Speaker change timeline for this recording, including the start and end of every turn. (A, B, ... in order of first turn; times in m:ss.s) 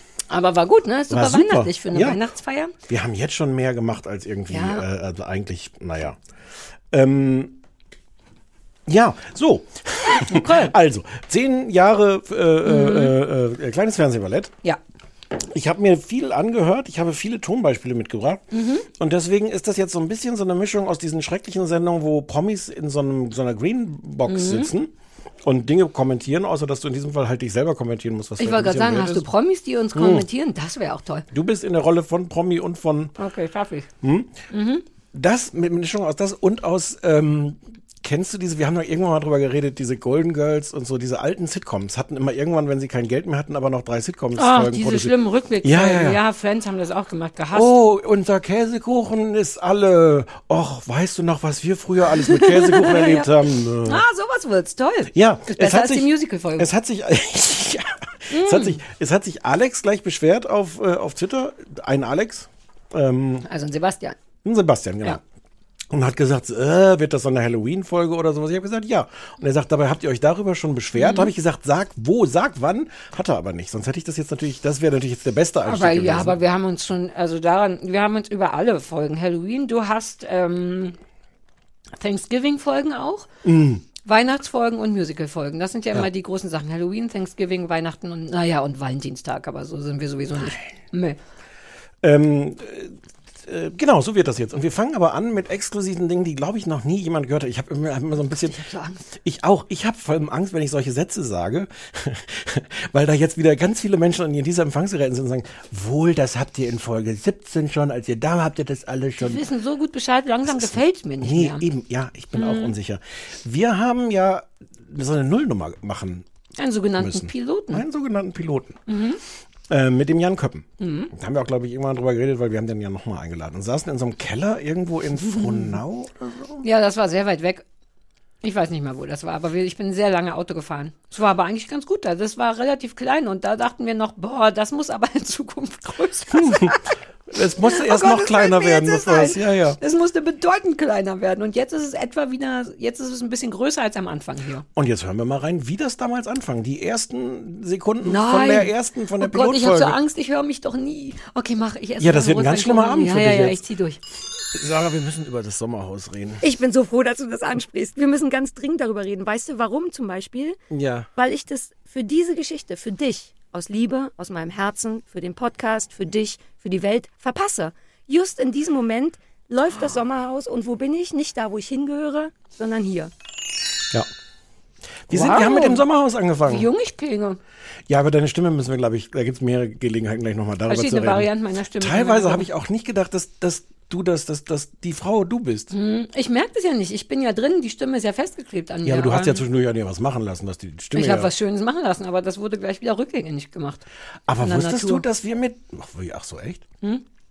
0:00.3-0:02.7 A
0:01.1-0:02.2 B
0:02.9-0:06.2 B
0:04.5-0:04.8 A
0:06.9-0:07.6 B
0:08.9-0:14.6 B
0:10.3-0:10.7 A
0:12.6-0:13.1 A
0:15.4-0:24.9 B
0:18.5-0:18.8 A
0:24.3-0:24.7 A
0:25.4-0:29.3 B
0:28.4-0:31.2 A
0:29.9-0:30.3 B
0:31.3-0:33.1 B
0:33.2-0:33.9 A
0:34.0-0:34.4 B
0:34.5-0:34.8 A
0:35.1-0:46.2 B
0:44.4-0:47.7 A
0:47.5-0:54.0 B
0:52.3-0:53.3 A
0:53.8-0:56.7 A
0:55.1-1:03.5 B
0:58.3-0:58.8 A
1:03.4-1:04.2 A
1:04.4-1:05.2 B
1:05.9-1:16.4 B
1:11.0-1:11.3 A
1:15.6-1:21.0 A
1:22.0-1:23.3 A
1:23.4-1:23.8 B
1:24.0-1:31.2 A
1:32.0-1:38.6 B
1:38.3-1:39.0 A
1:39.1-1:49.4 B
1:49.2-1:51.6 A
1:50.4-1:56.3 B
1:52.3-1:52.7 A
1:56.6-1:57.8 A
1:57.0-1:58.8 B
1:58.9-1:59.2 A
1:59.7-2:06.6 B
2:00.8-2:01.1 A
2:06.6-2:07.6 A
2:08.4-2:16.9 A
2:16.3-2:16.8 B
2:17.3-2:19.8 B
2:17.7-2:24.6 A
2:24.7-2:30.0 B
2:28.0-2:34.0 A
2:32.0-2:33.6 B
2:34.5-2:36.4 B
2:36.4-2:40.6 C
2:40.7-2:41.1 B
2:41.2-2:53.1 C
2:55.1-2:56.7 B
2:55.1-2:55.8 A
2:56.4-2:57.4 A
2:57.9-3:05.7 B
3:00.7-3:02.5 A
3:05.7-3:09.4 A
3:08.8-3:11.3 B
3:10.9-3:13.8 A
3:14.3-3:16.6 B
3:14.4-3:15.0 A